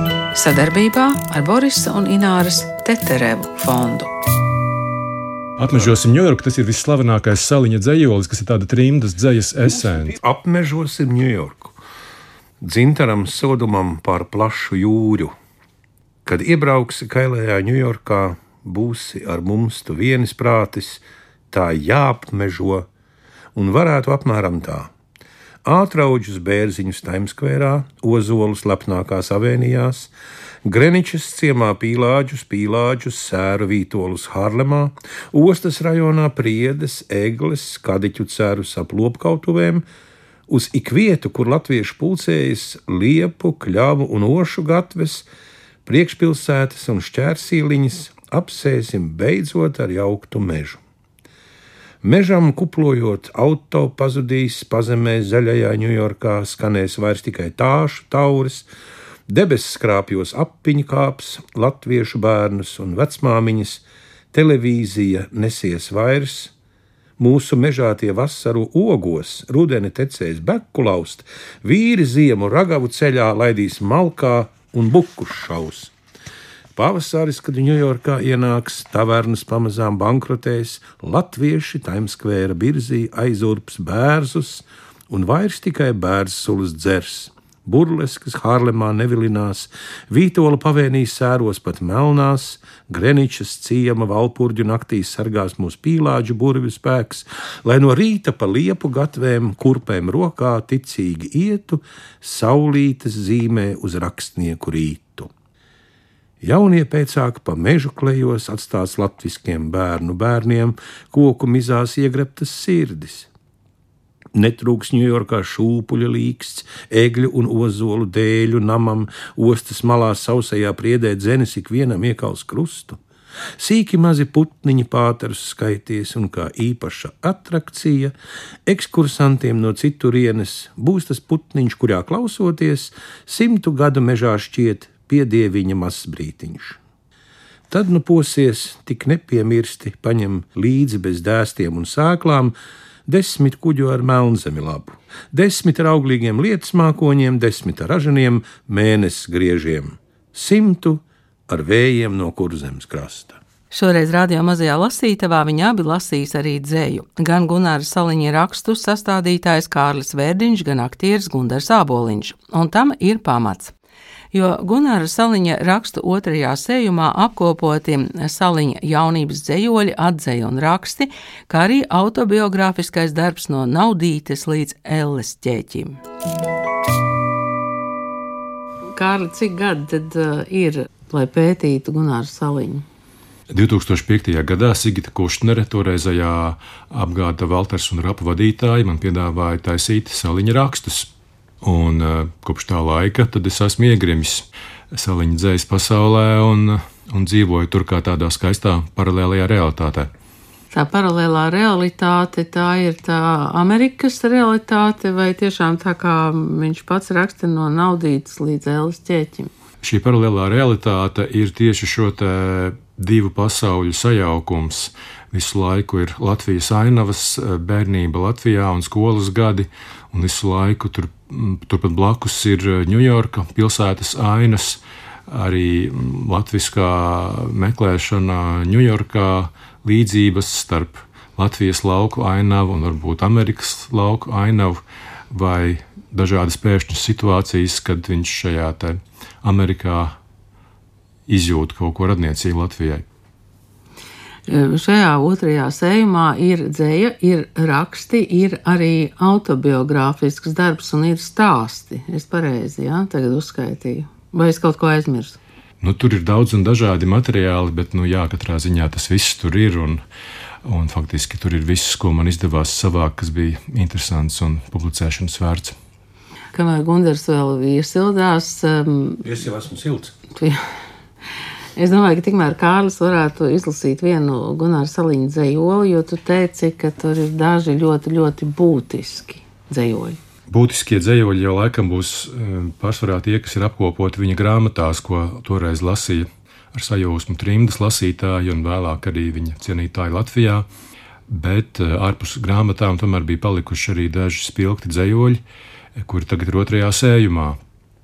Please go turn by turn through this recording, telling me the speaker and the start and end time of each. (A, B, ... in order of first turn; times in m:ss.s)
0:00.3-0:04.1 A
0:05.6-0:10.2 B
0:09.9-0:11.8 C
0:12.6-0:15.3 C
0:16.2-0:22.9 C
0:23.6-0:24.9 C
0:25.6-0:30.1 C
0:30.6-0:39.8 C
0:40.5-0:45.3 C
0:45.8-0:50.8 C
0:52.0-0:58.7 C
0:59.3-1:06.5 C
1:07.2-1:15.9 C
1:16.8-1:45.3 C
1:46.4-1:53.3 C
1:54.3-2:03.0 C
2:03.6-2:08.1 C
2:08.7-2:16.8 C
2:17.7-2:22.5 C
2:23.1-2:33.4 C
2:33.7-2:43.7 A
2:44.3-2:56.0 A
2:58.9-3:02.8 A
3:03.5-3:11.1 B
3:11.6-3:20.1 B
3:20.7-3:29.5 A
3:29.8-4:00.2 B
4:01.3-4:03.0 B
4:04.5-4:15.4 A
4:15.8-4:20.0 B
4:20.6-4:25.8 B
4:26.5-4:29.2 A
4:29.2-4:30.1 C
4:30.3-4:30.6 A
4:31.8-4:40.2 A
4:40.5-4:50.6 B
4:51.3-4:55.4 B
4:56.0-4:57.6 B